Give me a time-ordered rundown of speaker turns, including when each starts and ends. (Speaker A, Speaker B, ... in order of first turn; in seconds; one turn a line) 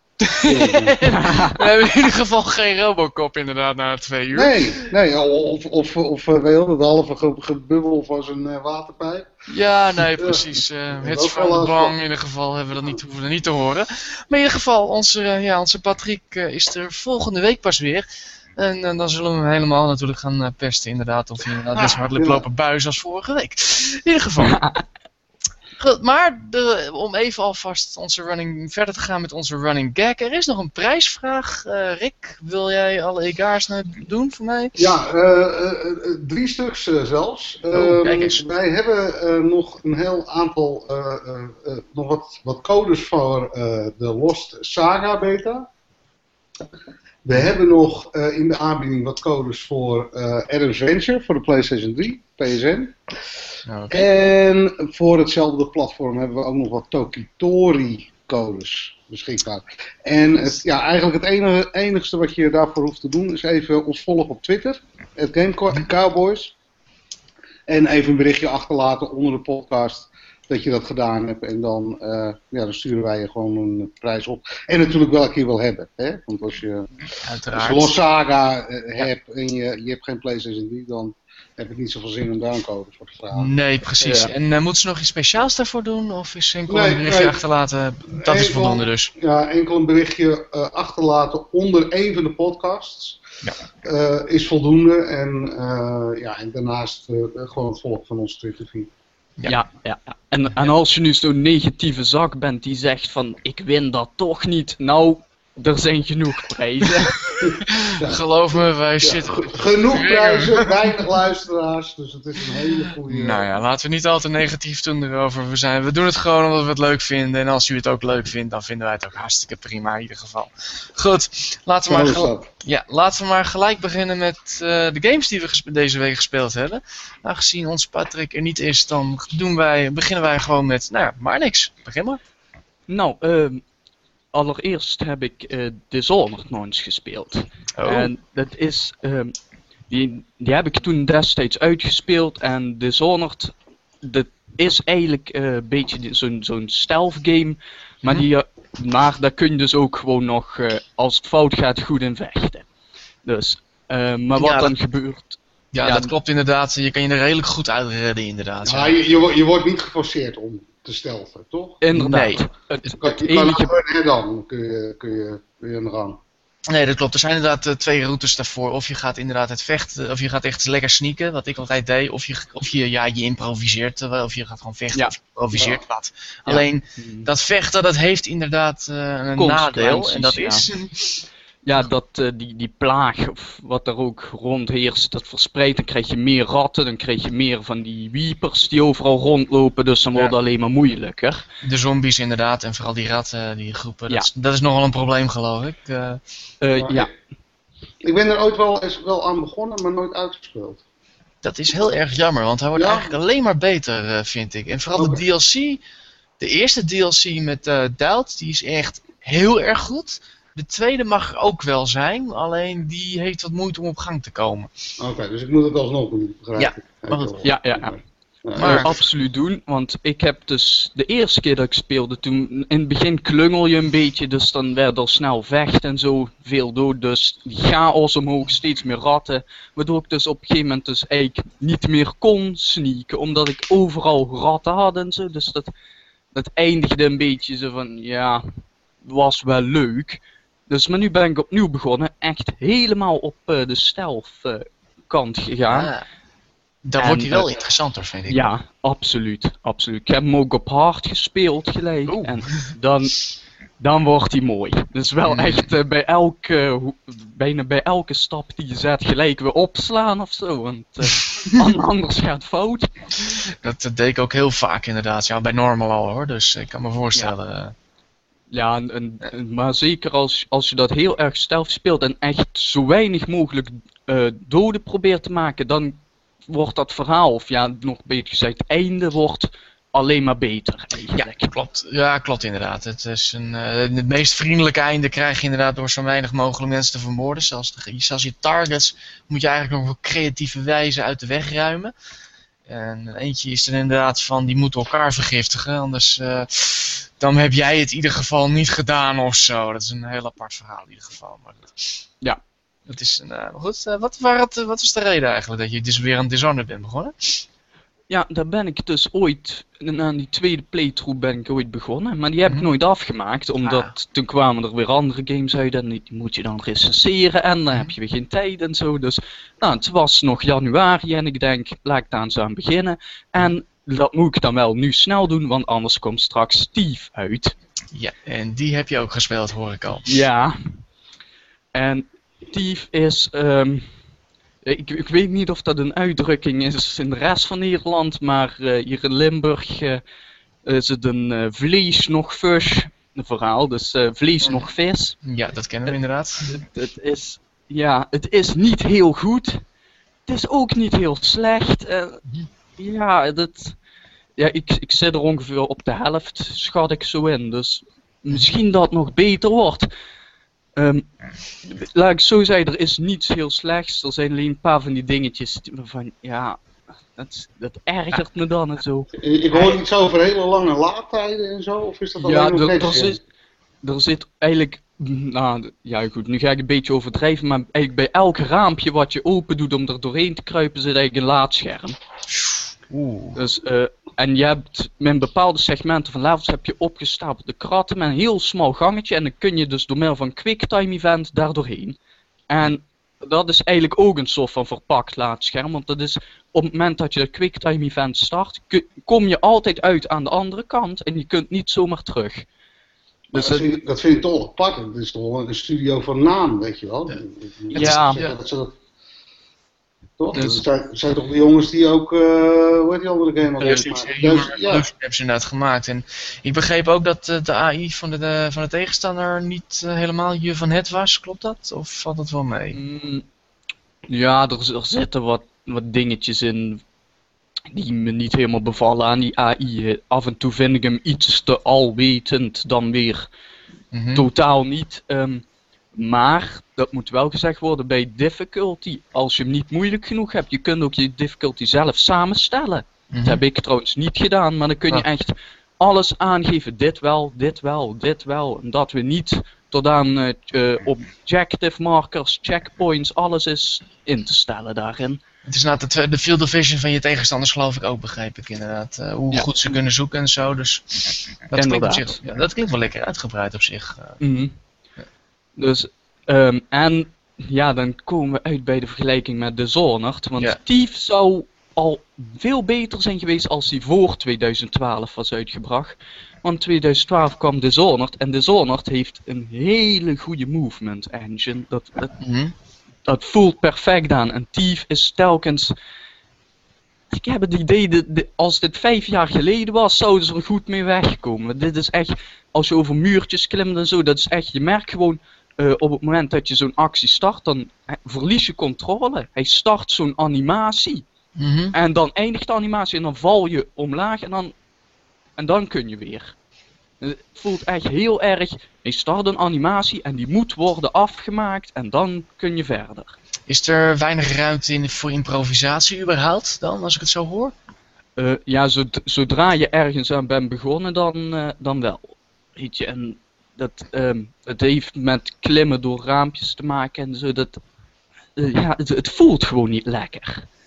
Speaker A: 0.2-4.9
Speaker B: 0.4-1.0
Speaker C: 1.0-1.6
Speaker B: 4.3-9.3
Speaker A: 9.5-18.1
Speaker B: 10.0-11.9
Speaker A: 18.6-24.6
Speaker B: 21.7-22.4
Speaker C: 24.4-24.8
Speaker A: 25.8-34.8
Speaker B: 34.8-45.7
Speaker A: 37.7-38.4
Speaker B: 47.2-52.9
Speaker A: 53.7-54.1
Speaker B: 53.9-66.5
Speaker B: 67.7-76.9
Speaker A: 77.2-77.9
Speaker B: 77.5-83.5
Speaker A: 83.3-89.1
Speaker C: 84.0-84.3
Speaker B: 86.7-87.4
Speaker B: 88.2-93.2
Speaker B: 93.8-98.9
Speaker C: 99.5-107.2
Speaker A: 107.1-111.0
Speaker B: 107.4-113.5
Speaker A: 113.0-132.2
Speaker B: 121.8-122.5
Speaker C: 132.9-133.6
Speaker C: 134.3-139.3
Speaker A: 137.8-138.1
Speaker C: 139.9-152.7
Speaker C: 153.2-156.1
Speaker A: 154.3-154.7
Speaker A: 155.7-159.3
Speaker B: 158.6-161.8
Speaker C: 161.8-163.7
Speaker A: 161.9-162.4
Speaker B: 163.0-166.2
Speaker A: 166.7-181.2
Speaker B: 175.5-175.8
Speaker C: 176.5-177.3
Speaker C: 179.4-180.7
Speaker C: 181.6-191.4
Speaker A: 191.6-196.2
Speaker C: 196.6-197.1
Speaker B: 196.8-197.1
Speaker B: 198.0-200.8
Speaker A: 201.4-205.8
Speaker B: 202.7-203.1
Speaker B: 204.9-205.2
Speaker A: 206.4-214.7
Speaker B: 215.0-219.0
Speaker A: 216.6-217.4
Speaker C: 217.4-217.9
Speaker A: 218.5-218.9
Speaker C: 218.6-235.7
Speaker C: 236.3-238.4
Speaker C: 239.0-245.9
Speaker A: 245.7-246.0
Speaker A: 246.8-248.4
Speaker C: 247.0-247.5
Speaker C: 248.3-253.2
Speaker A: 252.1-252.7
Speaker C: 253.8-263.1
Speaker A: 255.2-255.7
Speaker A: 263.2-267.7
Speaker C: 268.5-281.5
Speaker A: 281.1-291.9
Speaker A: 292.7-302.0
Speaker A: 302.9-307.4
Speaker C: 308.1-327.5
Speaker A: 313.6-313.9
Speaker A: 327.9-330.1
Speaker C: 330.1-330.8
Speaker C: 331.7-333.9
Speaker C: 334.6-340.0
Speaker C: 340.6-345.2
Speaker A: 345.2-346.6
Speaker C: 346.4-349.6
Speaker C: 350.3-352.2
Speaker C: 352.8-353.8
Speaker C: 354.4-359.9
Speaker C: 360.8-361.1
Speaker C: 361.6-366.6
Speaker C: 367.1-369.7
Speaker B: 369.1-373.2
Speaker C: 372.2-373.2
Speaker C: 373.8-382.0
Speaker A: 382.3-383.4
Speaker C: 383.3-392.0
Speaker C: 392.5-402.5
Speaker B: 403.3-408.8
Speaker C: 403.3-403.7
Speaker C: 407.7-408.2
Speaker A: 407.7-408.3
Speaker B: 410.2-414.9
Speaker C: 410.3-410.6
Speaker A: 413.6-422.8
Speaker C: 422.7-423.3
Speaker C: 424.1-426.8
Speaker C: 427.7-433.3
Speaker A: 433.9-434.3
Speaker C: 434.1-455.2
Speaker A: 443.1-443.4
Speaker A: 455.4-464.2
Speaker C: 461.5-462.2
Speaker C: 464.2-464.6
Speaker C: 465.6-482.1
Speaker A: 482.2-482.5
Speaker C: 483.1-485.7
Speaker C: 487.1-501.0
Speaker A: 501.4-501.7
Speaker C: 501.7-504.5
Speaker C: 505.4-506.3
Speaker C: 507.0-513.2
Speaker A: 513.5-517.5
Speaker C: 518.2-527.6
Speaker C: 528.4-530.5